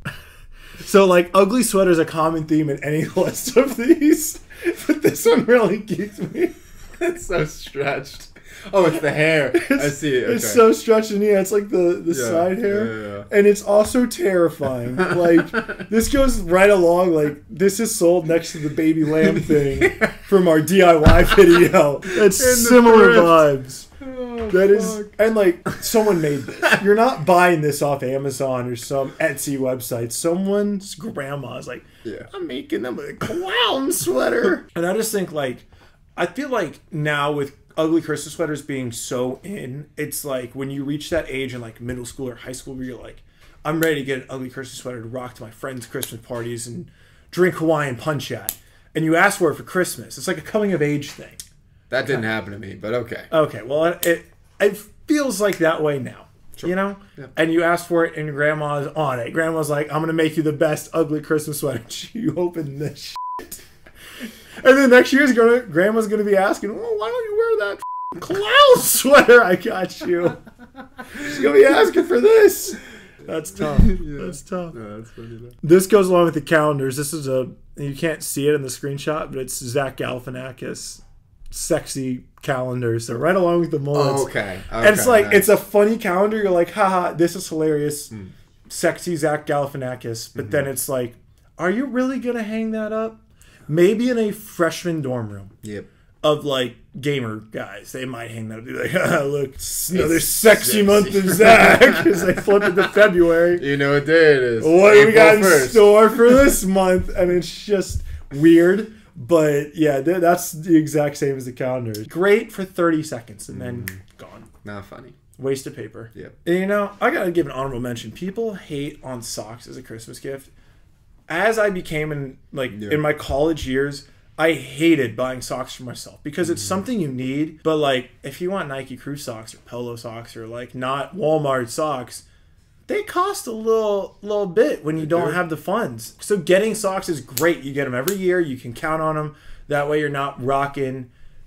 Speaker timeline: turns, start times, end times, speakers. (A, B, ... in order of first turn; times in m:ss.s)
0:00.8-0:06.6 A
0:07.0-0:10.7 B
0:09.5-0:23.9 A
0:12.1-0:13.3 B
0:15.0-0:15.7 B
0:19.2-0:20.2 B
0:22.1-0:23.5 B
0:24.0-0:25.1 B
0:24.5-0:35.7 A
0:32.0-0:32.3 B
0:36.2-0:51.4 A
0:51.9-0:53.3 B
0:53.3-1:03.6 A
0:56.6-0:57.3 B
1:04.6-1:10.4 A
1:11.1-1:14.8 A
1:13.6-1:15.6 B
1:15.6-1:21.0 A
1:21.5-1:28.1 A
1:23.9-1:25.5 B
1:28.7-1:35.5 A
1:35.6-1:35.9 B
1:36.2-1:43.6 A
1:39.9-1:42.9 B
1:43.5-1:46.5 B
1:44.6-1:54.5 A
1:53.5-1:53.9 B
1:54.6-1:55.2 B
1:55.4-2:00.5 A
2:01.3-2:12.2 A
2:02.7-2:03.0 B
2:12.9-2:21.1 A
2:15.0-2:15.4 B